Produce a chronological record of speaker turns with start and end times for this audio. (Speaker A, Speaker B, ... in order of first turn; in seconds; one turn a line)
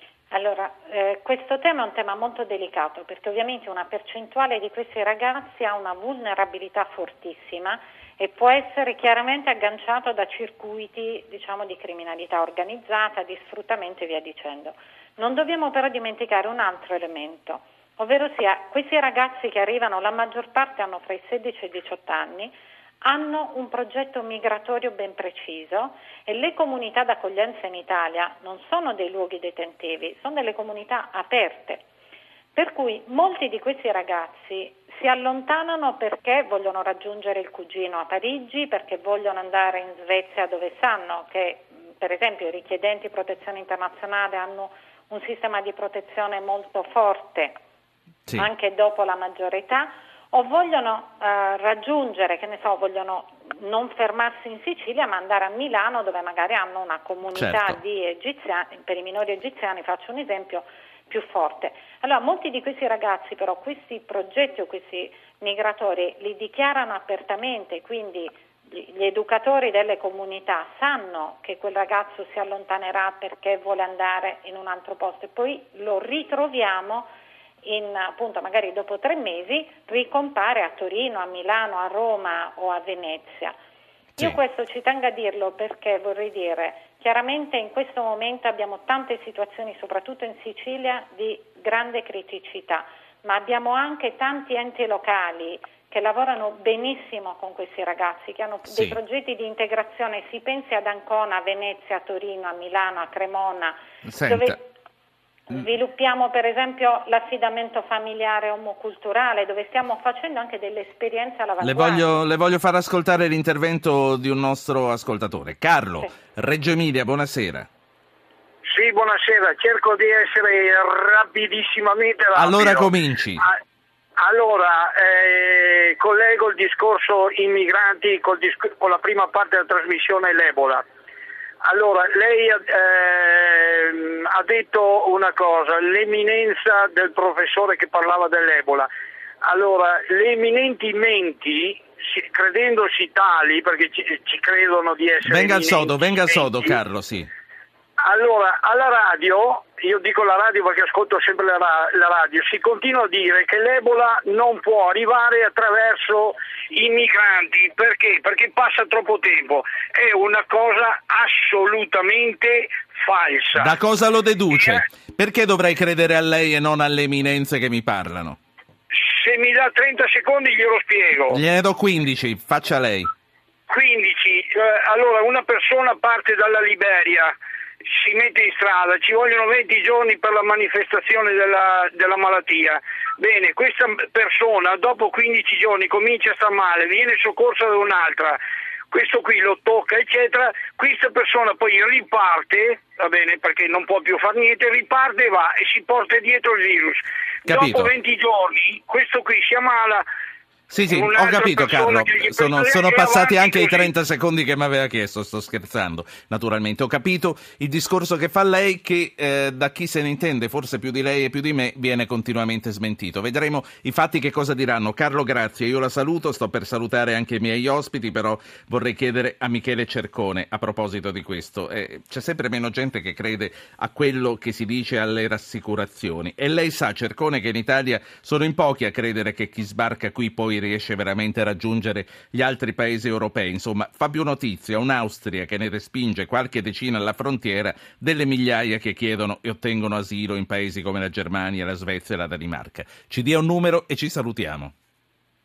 Speaker A: 0.3-31.8
Speaker A: 32.5-47.6
Speaker A: 48.3-77.1
Speaker B: 57.3-57.8
Speaker A: 77.6-83.5
Speaker A: 84.2-104.7
Speaker B: 98.7-99.0
Speaker B: 104.0-104.6
Speaker A: 105.5-112.1
Speaker B: 111.6-117.7
Speaker C: 118.6-123.6
Speaker B: 122.3-123.5
Speaker C: 124.2-130.8
Speaker C: 131.6-138.9
Speaker C: 139.4-146.5
Speaker B: 145.2-147.3
Speaker C: 148.0-163.7
Speaker B: 163.5-168.4
Speaker C: 168.9-171.4
Speaker B: 171.3-173.1
Speaker C: 173.7-177.3
Speaker C: 177.8-188.4
Speaker C: 188.9-200.0
Speaker B: 197.5-197.9
Speaker B: 200.7-244.7
Speaker C: 200.8-203.9